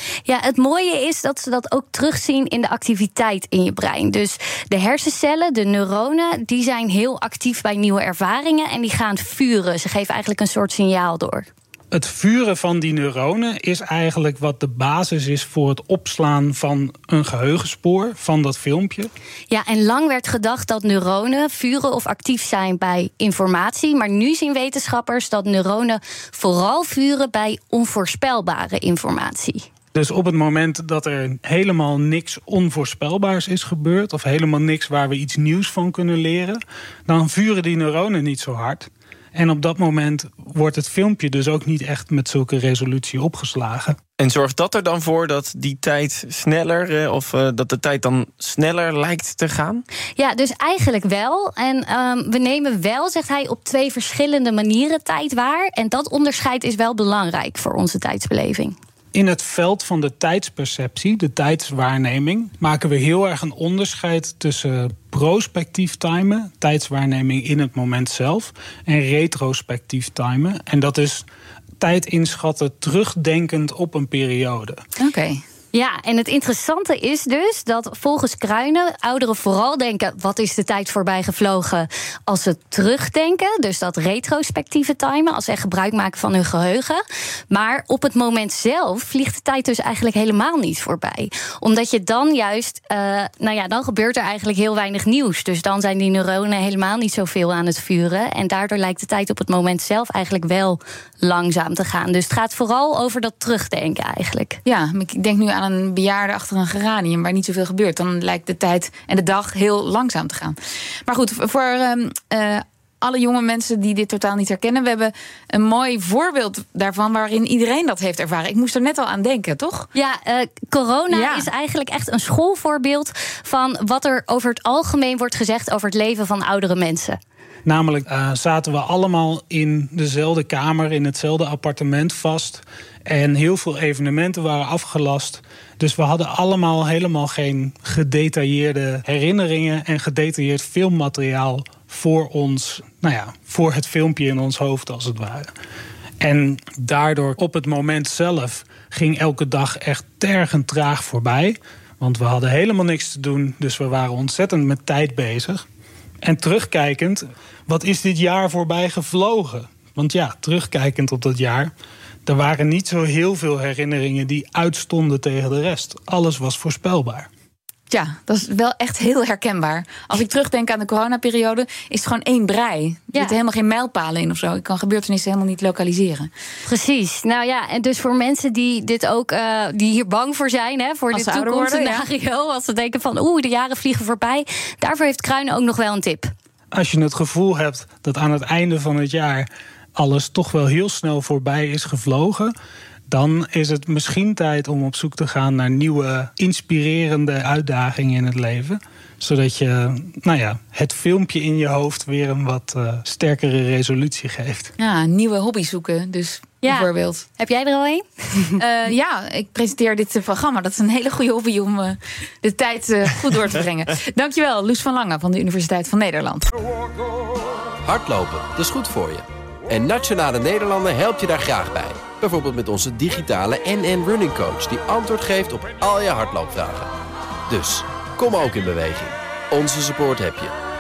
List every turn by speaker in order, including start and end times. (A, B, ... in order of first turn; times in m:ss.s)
0:00.2-0:11.5 A
0:11.9-0:19.1 B
0:19.5-0:29.6 A
0:29.9-0:44.0 B
0:44.2-0:49.8 C
0:50.2-0:58.8 A
0:59.1-1:11.3 B
1:11.8-1:14.8 B
1:15.0-1:15.4 D
1:15.7-1:44.6 A
1:44.6-1:59.9 D
1:59.9-2:07.2 A
2:01.1-2:01.5 D
2:07.7-2:25.5 B
2:26.2-2:35.7 B
2:36.2-2:41.7 B
2:42.3-2:47.3 B
2:47.9-2:56.3 D
2:56.6-3:06.3 A
3:01.1-3:02.1 D
3:06.7-3:12.5 B
3:13.1-3:24.7 B
3:24.8-3:27.2 D
3:26.6-3:28.6 A
3:28.6-3:36.5 D
3:37.8-3:46.9 E
3:47.5-3:50.6 E